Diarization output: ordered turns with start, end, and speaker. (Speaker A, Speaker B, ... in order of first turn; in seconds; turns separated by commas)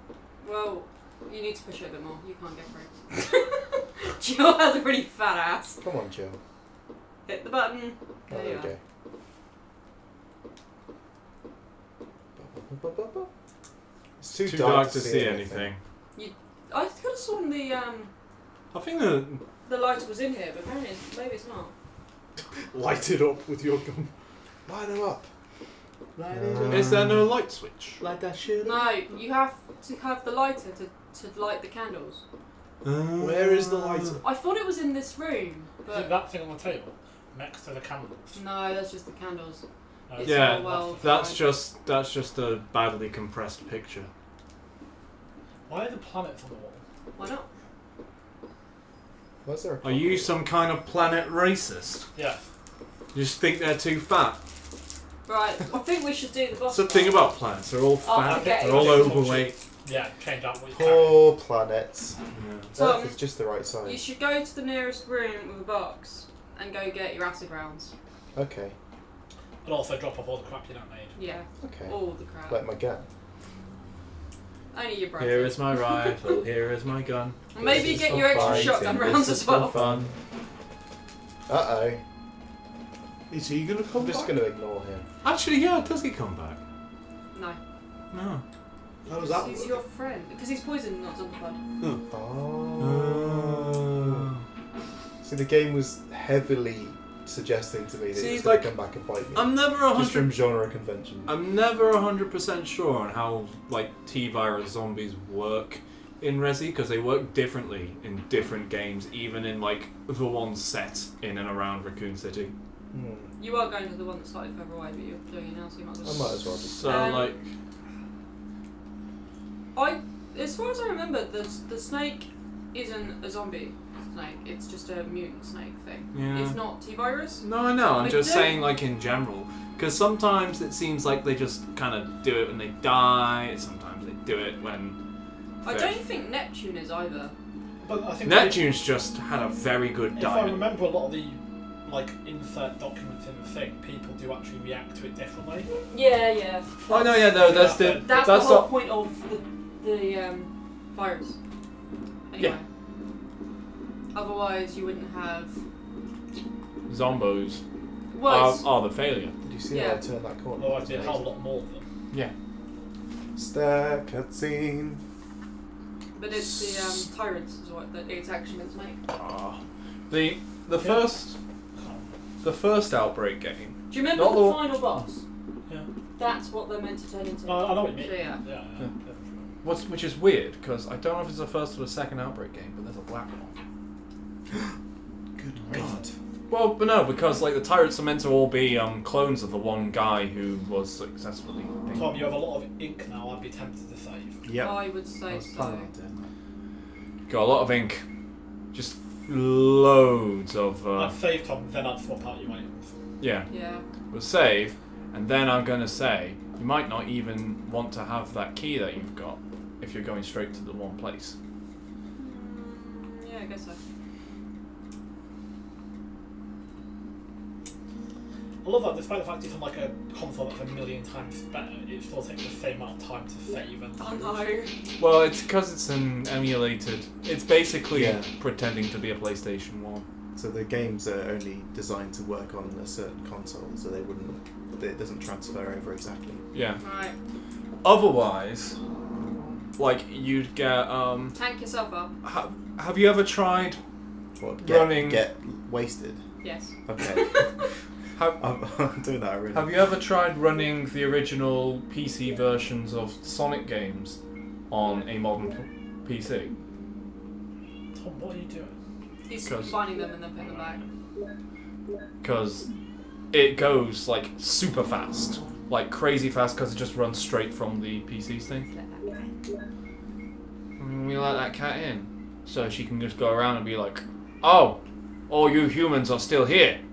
Speaker A: 0.4-5.8, Speaker B: 5.8-6.4, Speaker A: 7.2-8.7, Speaker B: 8.3-8.8, Speaker B: 12.4-13.3, Speaker B: 14.2-15.7, Speaker C: 14.3-15.8, Speaker A: 16.1-18.1, Speaker C: 18.7-19.4, Speaker A: 19.6-21.7, Speaker D: 22.7-24.1, Speaker B: 24.7-25.3, Speaker D: 26.2-27.2, Speaker B: 26.3-27.3, Speaker C: 26.7-28.0, Speaker D: 28.0-29.1, Speaker A: 28.6-32.2, Speaker C: 32.8-34.2, Speaker D: 33.2-34.2, Speaker A: 34.2-36.1, Speaker E: 35.9-38.4, Speaker A: 38.3-41.5, Speaker E: 40.1-41.4, Speaker C: 40.2-44.1, Speaker E: 45.7-46.8, Speaker A: 47.1-47.5, Speaker B: 49.4-50.4, Speaker C: 49.8-52.0, Speaker E: 52.1-52.4, Speaker C: 53.1-54.4, Speaker A: 55.3-57.2, Speaker C: 56.7-59.6, Speaker A: 58.0-59.2, Speaker E: 58.2-61.3, Speaker B: 60.7-62.2, Speaker C: 62.3-62.7, Speaker B: 62.7-64.0, Speaker A: 62.8-63.2, Speaker A: 63.8-67.9, Speaker B: 68.3-68.8, Speaker E: 69.6-71.1, Speaker A: 71.1-72.6, Speaker B: 71.6-73.0, Speaker A: 74.7-76.4, Speaker C: 75.2-80.1, Speaker A: 77.5-79.8, Speaker B: 77.6-80.1, Speaker B: 81.5-82.0, Speaker D: 83.3-84.4, Speaker B: 83.9-85.1, Speaker C: 85.2-86.6, Speaker A: 87.3-87.6, Speaker C: 88.1-88.4, Speaker A: 89.0-91.6, Speaker D: 89.0-89.8, Speaker B: 92.1-94.3, Speaker C: 92.8-94.4, Speaker B: 95.2-101.4, Speaker C: 98.1-98.7, Speaker C: 99.3-100.4, Speaker C: 101.2-112.5, Speaker B: 112.9-113.3, Speaker A: 113.4-117.3, Speaker B: 116.0-116.9, Speaker C: 116.7-117.4, Speaker A: 119.7-127.4, Speaker C: 126.1-126.6, Speaker C: 127.4-135.0, Speaker A: 128.0-128.6, Speaker A: 135.6-137.3, Speaker C: 135.6-136.0, Speaker E: 137.8-138.7, Speaker C: 138.2-140.7, Speaker E: 140.2-145.7, Speaker A: 145.7-151.3, Speaker C: 146.9-148.7, Speaker E: 146.9-148.2, Speaker A: 152.3-152.6, Speaker A: 154.1-155.6, Speaker C: 156.9-157.6, Speaker A: 158.1-158.7, Speaker C: 158.2-159.3, Speaker B: 159.4-161.3, Speaker A: 159.7-160.0, Speaker E: 160.6-161.8, Speaker B: 163.3-165.0, Speaker A: 166.2-169.0, Speaker C: 166.4-166.8, Speaker C: 169.1-171.3, Speaker E: 170.7-171.2, Speaker E: 171.8-172.1, Speaker C: 172.4-175.0, Speaker A: 173.9-175.2, Speaker A: 176.2-178.4, Speaker E: 177.4-179.5, Speaker C: 179.6-183.6, Speaker B: 185.4-186.1, Speaker C: 185.7-192.3, Speaker E: 191.9-194.4, Speaker B: 194.4-196.3, Speaker A: 194.6-195.9, Speaker C: 197.3-198.0, Speaker C: 198.7-201.2, Speaker E: 200.9-202.9, Speaker C: 203.2-203.5, Speaker A: 203.5-203.8, Speaker C: 204.1-211.3, Speaker A: 212.2-213.8, Speaker E: 218.6-224.5, Speaker A: 224.0-224.7, Speaker C: 225.0-230.1, Speaker B: 227.9-228.3, Speaker B: 230.3-236.4, Speaker C: 236.5-236.8, Speaker A: 236.8-237.1, Speaker C: 237.8-238.8, Speaker C: 239.8-241.4, Speaker A: 241.3-242.1, Speaker C: 242.2-243.8, Speaker B: 244.4-246.2, Speaker C: 244.6-245.2, Speaker A: 246.4-247.5, Speaker B: 246.8-247.5, Speaker B: 248.4-249.7, Speaker C: 249.5-254.2, Speaker C: 254.7-256.5, Speaker E: 257.9-258.7, Speaker A: 259.3-260.8, Speaker C: 259.4-259.8, Speaker E: 260.4-260.8, Speaker C: 262.2-262.7, Speaker C: 263.3-268.6, Speaker A: 268.6-269.3, Speaker C: 270.8-276.8